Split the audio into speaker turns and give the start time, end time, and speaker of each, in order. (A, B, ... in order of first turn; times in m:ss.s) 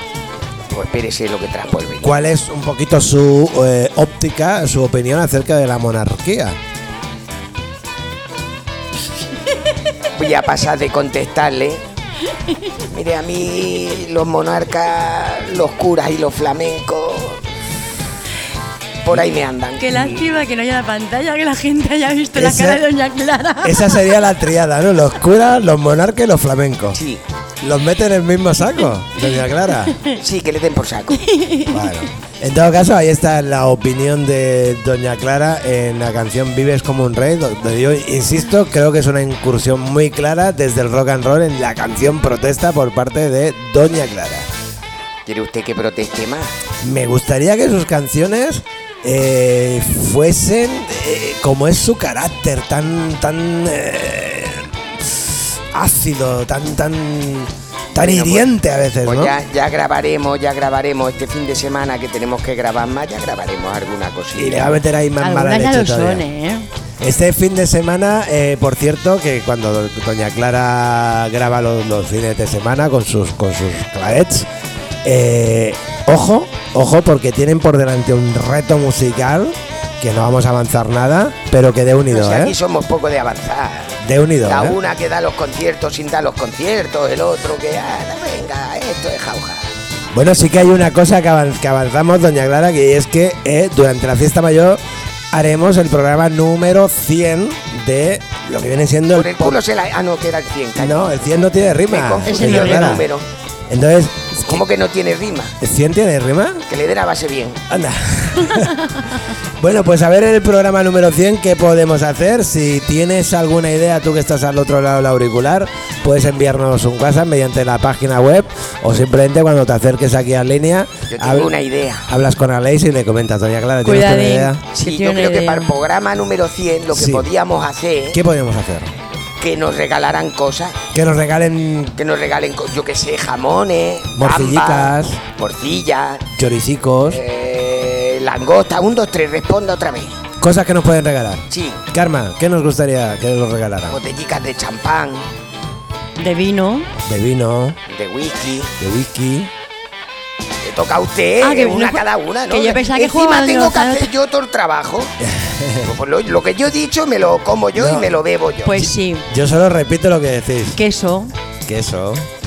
0:00.7-0:02.2 A
0:02.0-0:06.6 B
0:10.2-0:11.8 A
0:12.9-0:17.4 A
0:19.0-0:20.2 A
0:19.8-0:24.0 C
0:22.3-0:22.8 B
0:23.6-0:27.0 B
0:26.9-0:27.2 A
0:27.6-0:30.0 B
0:30.1-0:31.2 A
0:31.2-0:31.9 C
0:31.7-0:44.5 B
0:45.2-0:46.5 A
0:46.8-0:59.4 B
0:58.0-0:58.4 A
0:59.0-1:04.8 A
1:04.3-1:06.2 B
1:05.2-1:06.7 C
1:07.0-1:14.5 B
1:15.0-1:22.6 B
1:22.1-1:23.9 A
1:24.0-1:24.8 B
1:24.4-1:29.7 A
1:30.1-1:34.8 B
1:35.3-1:39.6 B
1:39.1-1:41.1 A
1:40.8-1:43.1 B
1:41.9-1:43.2 A
1:42.3-1:43.0 C
1:43.7-1:44.6 B
1:44.4-1:45.5 A
1:45.6-1:46.6 B
1:46.7-1:47.6 A
1:47.7-1:49.1 B
1:49.6-2:01.5 B
2:01.1-2:02.1 A
2:02.1-2:04.6 B
2:03.8-2:05.8 C
2:04.7-2:08.2 A
2:06.9-2:07.3 B
2:08.1-2:08.9 B
2:09.4-2:10.8 A
2:10.9-2:12.0 B
2:12.0-2:16.2 A
2:14.2-2:15.2 B
2:16.4-2:17.2 B
2:17.1-2:20.2 A
2:20.4-2:24.0 B
2:21.5-2:21.8 A
2:23.9-2:25.2 A
2:26.2-2:26.9 C
2:27.0-2:27.8 B
2:27.9-2:28.7 A
2:28.8-2:29.5 B
2:30.6-2:35.1 A
2:31.4-2:34.1 C
2:35.2-2:35.9 B
2:35.8-2:38.8 A
2:37.7-2:38.1 B
2:38.6-2:39.3 C
2:38.7-2:40.8 B
2:40.7-2:41.3 C
2:41.6-2:42.2 B